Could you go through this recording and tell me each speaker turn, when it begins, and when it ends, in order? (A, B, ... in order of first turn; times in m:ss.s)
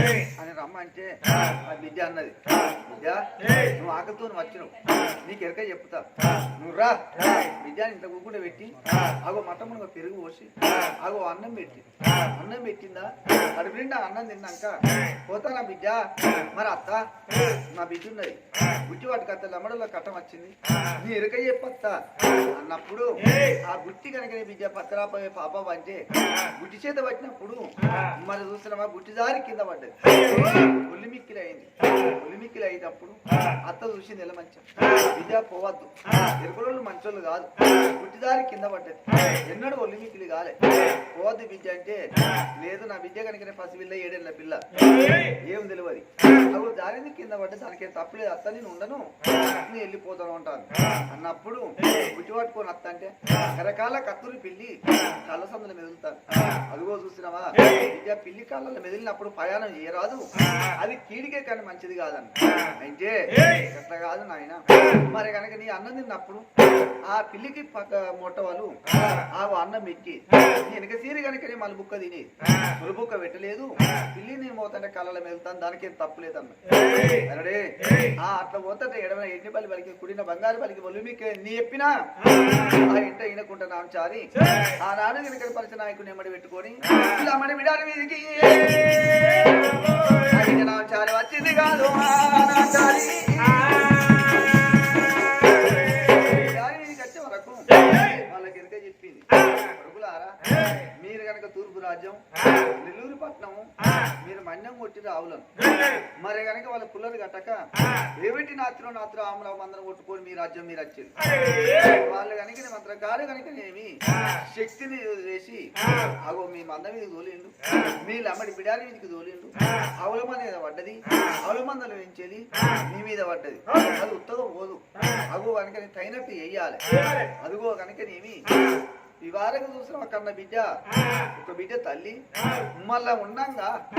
0:00.4-0:17.0 A
0:17.7-0:22.0 A
0:22.5-0:44.6 A
0:45.4-0:49.1 A
0:49.6-1:06.5 A
1:07.0-1:16.6 A
1:17.2-1:22.1 A
1:22.6-1:29.7 A
1:30.3-1:34.1 A
1:35.9-1:40.4 A
1:41.0-1:45.5 A
1:46.2-2:06.8 A
2:07.4-2:08.5 A
2:09.2-2:10.8 A
2:11.4-2:12.2 A
2:12.8-2:13.8 A